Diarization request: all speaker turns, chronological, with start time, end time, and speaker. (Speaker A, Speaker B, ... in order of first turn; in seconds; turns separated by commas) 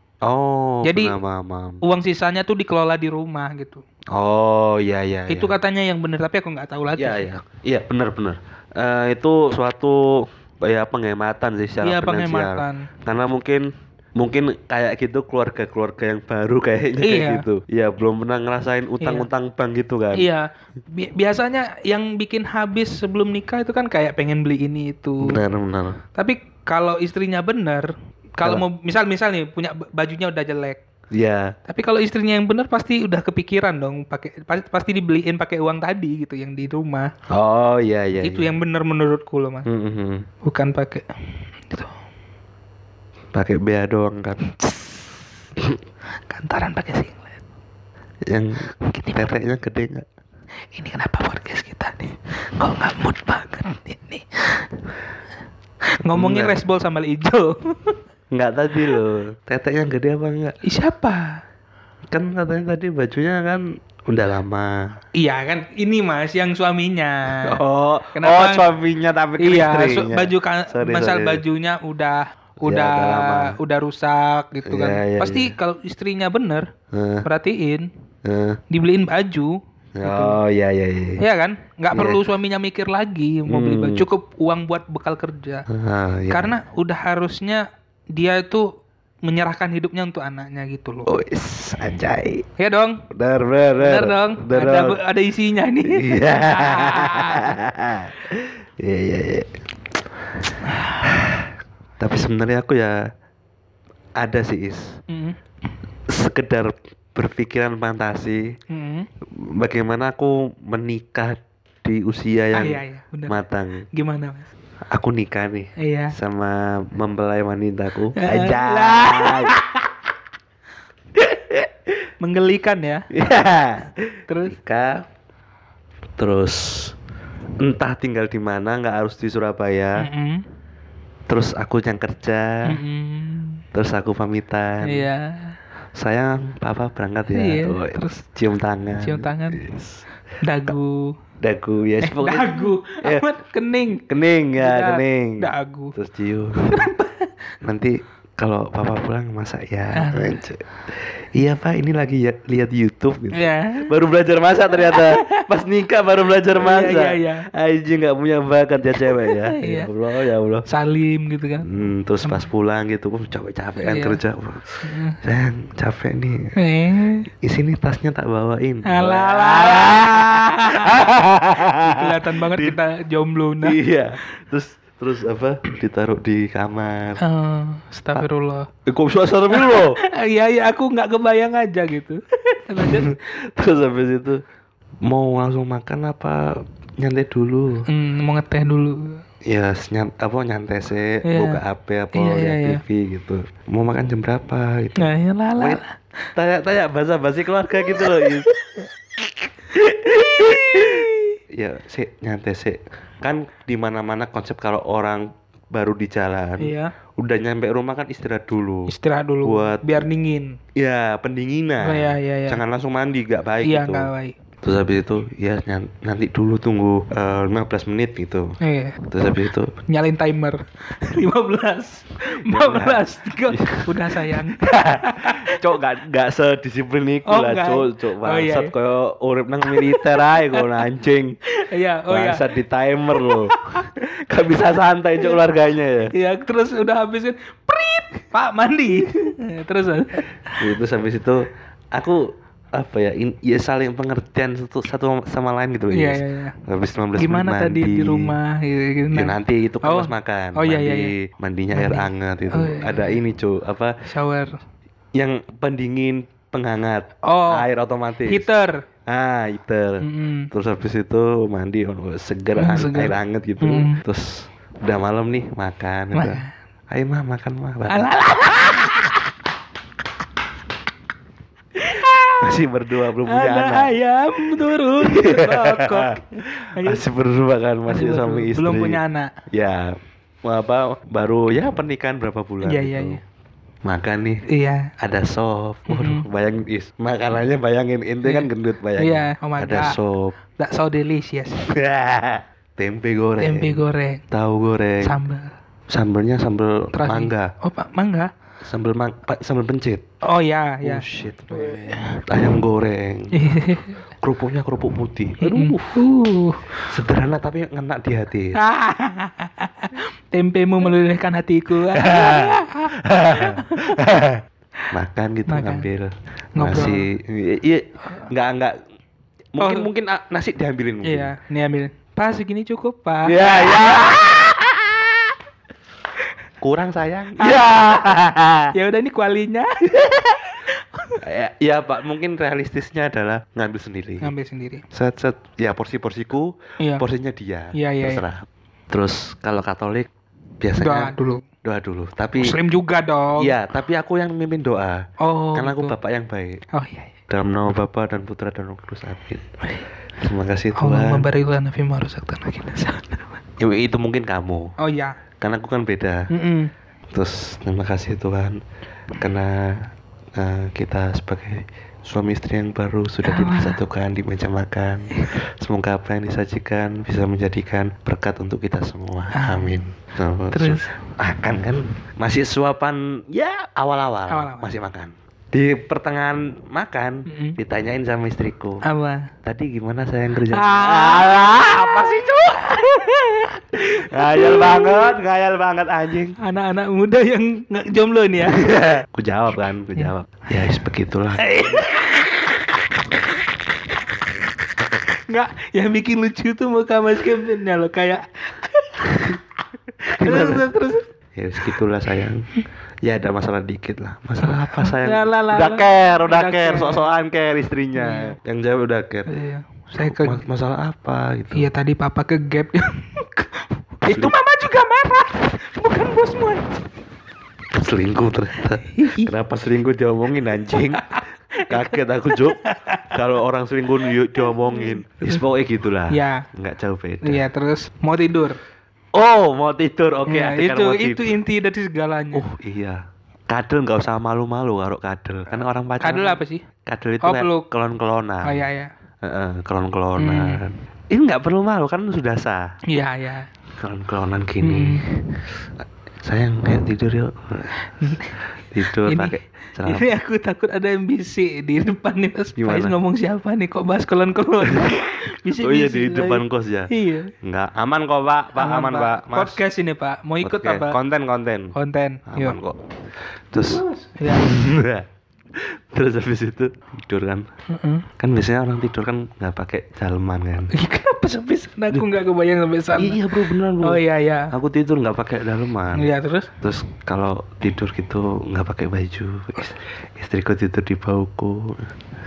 Speaker A: 0.2-1.8, Speaker B: 0.8-1.2, Speaker B: 1.8-3.8, Speaker A: 4.1-5.5, Speaker B: 5.3-7.3, Speaker A: 7.0-20.3, Speaker B: 11.8-12.9, Speaker B: 17.0-17.4, Speaker B: 19.0-19.3, Speaker B: 20.1-25.4, Speaker A: 25.2-26.0, Speaker B: 26.1-30.8, Speaker A: 31.1-31.6, Speaker B: 31.7-37.1, Speaker A: 37.3-38.5, Speaker B: 38.2-39.7, Speaker A: 39.7-40.3, Speaker B: 40.4-41.1, Speaker B: 41.6-41.9, Speaker A: 43.3-44.5, Speaker B: 46.3-47.4, Speaker A: 48.3-50.1, Speaker B: 48.8-49.3, Speaker B: 50.7-54.7, Speaker B: 56.0-58.0, Speaker A: 56.1-56.6, Speaker A: 58.3-60.6, Speaker B: 60.6-61.4, Speaker A: 62.1-65.0, Speaker B: 65.2-67.6, Speaker A: 67.4-71.4, Speaker B: 68.2-68.7, Speaker B: 69.4-76.7, Speaker A: 72.6-73.6, Speaker A: 74.7-75.5, Speaker A: 76.9-77.3, Speaker B: 77.2-77.9, Speaker A: 78.2-78.6, Speaker B: 78.7-80.4, Speaker A: 80.0-81.2, Speaker B: 81.2-85.7, Speaker A: 81.9-82.2, Speaker A: 83.5-84.1, Speaker A: 85.7-86.5, Speaker B: 86.3-88.7, Speaker B: 89.2-91.1, Speaker A: 91.1-92.5, Speaker B: 92.6-93.0, Speaker A: 93.1-95.0, Speaker B: 93.8-97.6, Speaker A: 95.9-99.5, Speaker B: 100.7-101.0, Speaker A: 101.0-103.0, Speaker A: 104.2-105.0, Speaker B: 105.1-105.4, Speaker A: 106.1-108.5, Speaker B: 108.7-109.1, Speaker A: 109.3-113.8, Speaker B: 112.5-113.4, Speaker B: 113.9-114.5, Speaker A: 114.9-119.6, Speaker B: 115.8-116.2, Speaker B: 118.2-119.8, Speaker A: 121.2-121.7, Speaker B: 122.2-123.1, Speaker A: 123.1-125.1, Speaker B: 124.3-124.6, Speaker A: 126.2-127.0, Speaker A: 127.6-130.1, Speaker B: 130.0-130.4, Speaker A: 131.3-132.8, Speaker B: 132.7-133.6, Speaker A: 133.7-135.1, Speaker B: 134.8-135.6, Speaker A: 136.0-140.0, Speaker B: 137.3-138.2, Speaker B: 139.0-139.7, Speaker B: 140.4-141.2, Speaker A: 141.4-143.2, Speaker B: 142.0-144.0, Speaker A: 144.1-146.9, Speaker B: 144.6-145.9, Speaker B: 146.6-147.3, Speaker A: 147.6-160.7, Speaker B: 149.9-150.4, Speaker B: 153.3-153.9, Speaker B: 154.7-155.5, Speaker B: 156.5-157.5, Speaker B: 159.0-159.9, Speaker B: 160.7-161.7, Speaker A: 161.7-166.5, Speaker B: 163.8-164.2, Speaker B: 164.8-165.2, Speaker B: 166.6-167.3, Speaker A: 167.4-172.8, Speaker B: 168.8-173.8, Speaker A: 173.6-177.2, Speaker B: 177.2-178.7, Speaker A: 178.9-180.0, Speaker B: 179.5-183.1, Speaker A: 182.8-184.4, Speaker A: 185.0-187.9, Speaker B: 187.9-189.2, Speaker A: 189.4-195.8, Speaker B: 191.2-191.6, Speaker B: 192.1-192.8, Speaker B: 195.0-196.0, Speaker A: 196.3-198.5, Speaker B: 197.9-198.5, Speaker A: 199.7-208.9, Speaker B: 200.0-201.4, Speaker B: 206.6-206.9, Speaker B: 208.9-210.6, Speaker A: 209.4-210.1, Speaker A: 210.8-214.1, Speaker B: 211.8-212.6, Speaker B: 213.6-214.3, Speaker A: 214.6-218.6, Speaker B: 218.6-219.0, Speaker A: 219.1-219.8, Speaker B: 219.9-225.6, Speaker A: 222.4-231.4, Speaker B: 227.3-228.7, Speaker B: 229.7-230.8, Speaker B: 231.5-232.5, Speaker A: 232.1-236.1, Speaker B: 233.2-233.9, Speaker B: 236.1-240.6, Speaker A: 240.6-248.4, Speaker B: 245.9-246.6, Speaker B: 247.2-251.1, Speaker A: 249.1-254.0, Speaker B: 251.7-253.2, Speaker B: 254.1-254.5, Speaker A: 255.2-258.5, Speaker B: 257.2-257.7, Speaker B: 258.3-258.8, Speaker A: 259.1-268.7, Speaker B: 260.0-260.5, Speaker B: 262.6-264.0, Speaker B: 266.1-266.5, Speaker B: 267.9-269.2, Speaker B: 271.8-272.6, Speaker A: 272.4-273.9, Speaker B: 273.2-277.0, Speaker A: 275.0-279.0, Speaker B: 277.9-279.3, Speaker A: 279.5-283.2, Speaker B: 282.6-283.2, Speaker A: 283.8-284.4, Speaker B: 284.5-284.9, Speaker A: 285.0-290.4, Speaker B: 285.9-286.3, Speaker B: 288.2-290.0, Speaker B: 290.6-291.7, Speaker A: 291.6-295.2, Speaker B: 293.4-294.2, Speaker B: 295.0-295.5, Speaker A: 295.9-297.5, Speaker B: 296.9-298.3, Speaker A: 298.6-300.0, Speaker B: 300.2-302.2, Speaker A: 300.8-303.5, Speaker B: 303.3-304.0, Speaker A: 304.2-306.0, Speaker B: 305.4-306.8, Speaker A: 306.8-308.6, Speaker B: 308.6-314.0, Speaker A: 311.9-318.8, Speaker B: 315.5-315.9, Speaker B: 316.6-317.1, Speaker A: 319.5-321.3, Speaker B: 319.6-319.9, Speaker B: 321.0-324.2, Speaker A: 323.2-325.3, Speaker A: 326.6-328.7, Speaker B: 327.4-328.2, Speaker B: 328.7-331.2, Speaker A: 331.2-334.3, Speaker B: 334.2-334.8, Speaker A: 334.9-340.1, Speaker B: 337.7-338.2, Speaker A: 340.6-341.1, Speaker B: 340.8-341.4, Speaker A: 341.6-342.6, Speaker B: 342.4-343.5, Speaker A: 343.4-346.6, Speaker B: 345.2-345.9, Speaker B: 346.7-347.2, Speaker A: 347.3-349.5, Speaker A: 350.2-351.3, Speaker B: 350.8-353.4, Speaker A: 353.6-354.7, Speaker B: 354.8-355.2, Speaker A: 355.4-356.3, Speaker B: 356.3-356.7, Speaker A: 357.1-358.6, Speaker A: 359.2-378.8, Speaker B: 363.2-363.8, Speaker B: 369.3-369.8, Speaker B: 370.5-371.0, Speaker B: 374.3-374.7, Speaker B: 377.3-377.6, Speaker B: 378.8-379.3, Speaker A: 379.4-383.1, Speaker B: 380.5-385.2, Speaker A: 383.8-386.4, Speaker B: 386.4-389.0, Speaker A: 388.4-391.4, Speaker B: 391.4-392.8, Speaker B: 395.3-399.4, Speaker B: 400.0-401.1, Speaker A: 400.1-400.7, Speaker A: 401.4-402.5, Speaker A: 403.0-409.3, Speaker B: 404.4-407.1, Speaker B: 408.0-408.4, Speaker B: 409.3-410.4, Speaker A: 410.0-411.7, Speaker B: 411.5-416.8, Speaker A: 414.1-414.3, Speaker A: 417.7-421.1, Speaker B: 418.8-419.3, Speaker B: 420.7-423.2, Speaker A: 421.7-427.4, Speaker B: 424.4-425.4, Speaker B: 426.1-426.5, Speaker B: 427.2-428.6, Speaker A: 429.1-431.4, Speaker B: 430.3-432.4, Speaker A: 432.3-438.6, Speaker B: 436.0-436.6, Speaker B: 437.2-437.7, Speaker B: 438.4-438.9, Speaker A: 439.2-442.7, Speaker B: 440.2-440.6, Speaker B: 442.9-443.5, Speaker A: 443.8-445.1, Speaker B: 444.6-445.1, Speaker A: 446.2-447.8, Speaker B: 448.0-448.4, Speaker A: 448.7-450.1, Speaker B: 448.9-457.3, Speaker A: 452.6-452.9, Speaker A: 455.6-456.9, Speaker A: 457.4-459.6, Speaker B: 458.6-461.0, Speaker A: 460.4-461.8, Speaker B: 461.8-462.6, Speaker A: 462.3-462.8, Speaker A: 463.5-467.5, Speaker B: 463.7-464.5, Speaker B: 467.7-468.1, Speaker A: 468.2-470.7, Speaker B: 470.7-474.5, Speaker A: 473.0-476.1, Speaker B: 475.9-476.5, Speaker A: 476.6-481.9